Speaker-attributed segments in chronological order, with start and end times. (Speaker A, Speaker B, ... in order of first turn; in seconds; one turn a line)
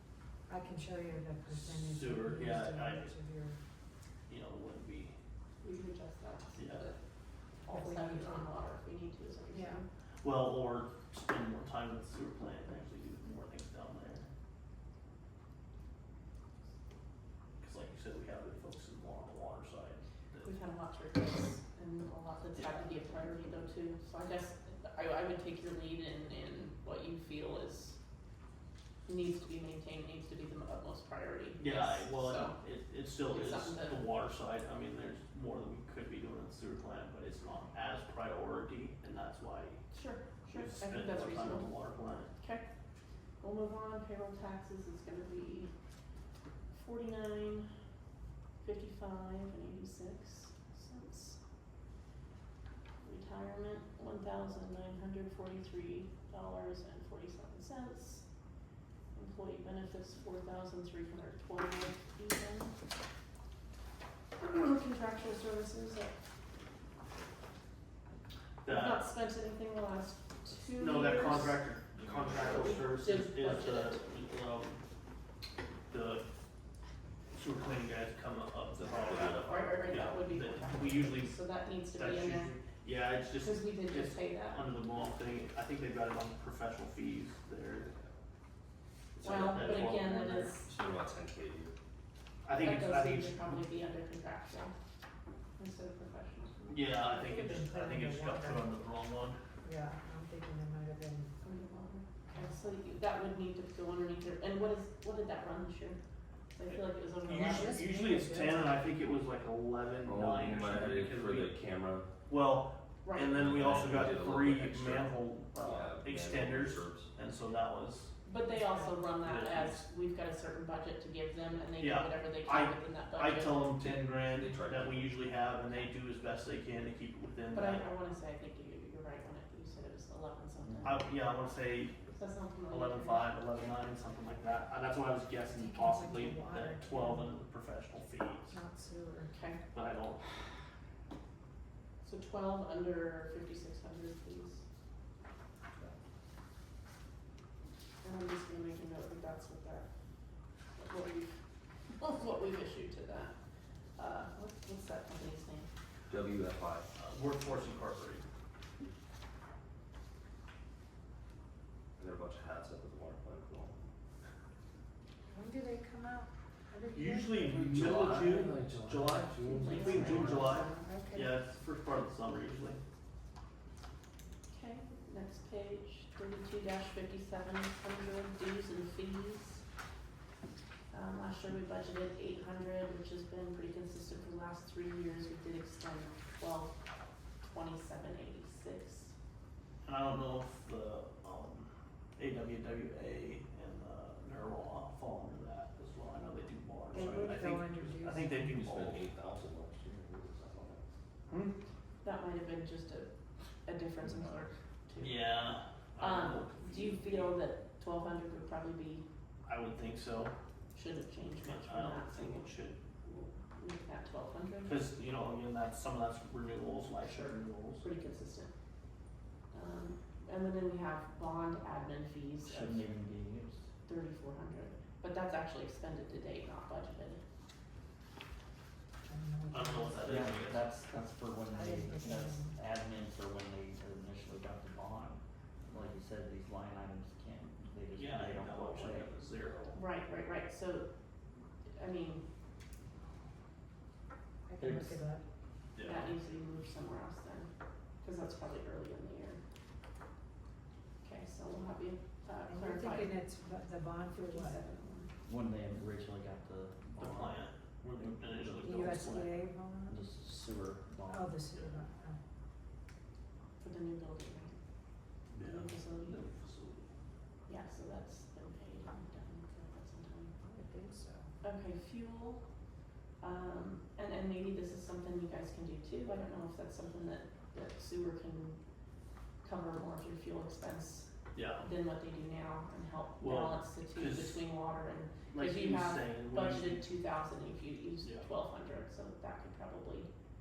Speaker A: 0.5-3.6
Speaker B: 1.5-3.1
Speaker B: 4.3-5.1
Speaker C: 5.6-7.0
Speaker B: 6.5-6.9
Speaker C: 7.6-9.9
Speaker A: 7.7-8.4
Speaker A: 9.5-9.8
Speaker B: 10.2-14.2
Speaker B: 17.6-20.5
Speaker C: 20.4-28.0
Speaker C: 29.1-32.5
Speaker B: 31.6-39.8
Speaker C: 33.2-34.1
Speaker C: 39.9-42.7
Speaker B: 40.5-42.3
Speaker C: 43.4-45.7
Speaker C: 46.7-47.7
Speaker C: 48.6-51.4
Speaker C: 53.0-58.2
Speaker C: 59.1-62.7
Speaker C: 64.4-66.1
Speaker B: 68.6-69.0
Speaker C: 68.6-71.7
Speaker B: 70.8-74.8
Speaker D: 72.0-72.8
Speaker C: 72.4-74.0
Speaker B: 75.9-76.2
Speaker B: 77.3-81.4
Speaker D: 78.7-79.6
Speaker C: 79.3-82.5
Speaker B: 81.9-87.9
Speaker C: 83.4-84.7
Speaker D: 87.8-88.1
Speaker D: 89.2-90.0
Speaker B: 89.2-90.5
Speaker C: 89.2-90.7
Speaker D: 90.7-91.8
Speaker B: 92.4-93.6
Speaker C: 92.5-94.7
Speaker C: 95.6-96.7
Speaker B: 96.7-99.4
Speaker A: 96.8-98.7
Speaker A: 99.6-101.3
Speaker C: 101.4-106.0
Speaker C: 106.5-107.8
Speaker B: 106.7-111.6
Speaker A: 107.3-108.8
Speaker D: 110.0-112.1
Speaker B: 112.3-118.1
Speaker C: 113.0-113.4
Speaker D: 113.3-117.1
Speaker C: 118.2-123.8
Speaker A: 118.5-118.9
Speaker B: 119.2-119.8
Speaker B: 121.8-127.9
Speaker D: 124.3-125.3
Speaker C: 127.5-131.1
Speaker E: 130.6-130.9
Speaker B: 130.8-132.1
Speaker C: 132.1-133.3
Speaker B: 132.7-138.6
Speaker A: 135.5-137.3
Speaker A: 138.5-139.3
Speaker C: 139.3-139.6
Speaker B: 139.7-140.2
Speaker C: 142.0-144.6
Speaker C: 148.0-149.9
Speaker C: 150.8-151.4
Speaker C: 152.0-153.3
Speaker C: 153.9-155.7
Speaker D: 156.1-156.8
Speaker B: 156.9-158.3
Speaker D: 162.0-163.8
Speaker A: 165.3-168.5
Speaker B: 166.9-172.8
Speaker D: 167.6-170.5
Speaker A: 169.5-171.3
Speaker C: 169.6-170.7
Speaker C: 174.5-179.6
Speaker C: 180.9-186.8
Speaker C: 187.4-189.1
Speaker B: 189.8-199.1
Speaker A: 196.9-198.6
Speaker D: 196.9-197.4
Speaker D: 198.6-200.8
Speaker B: 201.3-201.6
Speaker C: 202.0-203.1
Speaker C: 203.6-205.4
Speaker B: 205.0-207.3
Speaker C: 206.0-209.1
Speaker B: 209.4-210.3
Speaker C: 210.7-214.8
Speaker B: 211.5-212.8
Speaker B: 214.6-217.8
Speaker C: 217.0-218.5
Speaker C: 219.5-222.8
Speaker E: 222.4-223.6
Speaker C: 223.8-227.2
Speaker A: 229.1-230.3
Speaker B: 229.5-230.7
Speaker E: 230.0-239.1
Speaker A: 231.5-232.6
Speaker B: 237.9-239.8
Speaker C: 239.7-240.9
Speaker C: 241.8-242.2
Speaker A: 244.5-245.2
Speaker E: 244.6-245.0
Speaker B: 245.7-246.2
Speaker C: 245.8-247.5
Speaker C: 248.0-249.4
Speaker C: 251.0-253.2
Speaker A: 252.4-254.6
Speaker C: 254.1-255.1
Speaker E: 255.2-257.4
Speaker B: 257.0-259.3
Speaker E: 257.9-259.0
Speaker A: 258.4-260.0
Speaker E: 259.9-261.3
Speaker A: 261.0-262.2
Speaker B: 261.5-261.8
Speaker C: 263.6-264.6
Speaker B: 265.3-266.9
Speaker C: 265.4-266.2
Speaker C: 267.5-270.3
Speaker A: 270.4-271.3
Speaker C: 271.4-272.4
Speaker C: 273.2-278.6
Speaker C: 279.4-290.1
Speaker B: 281.3-281.7
Speaker B: 283.2-284.5
Speaker B: 285.3-286.8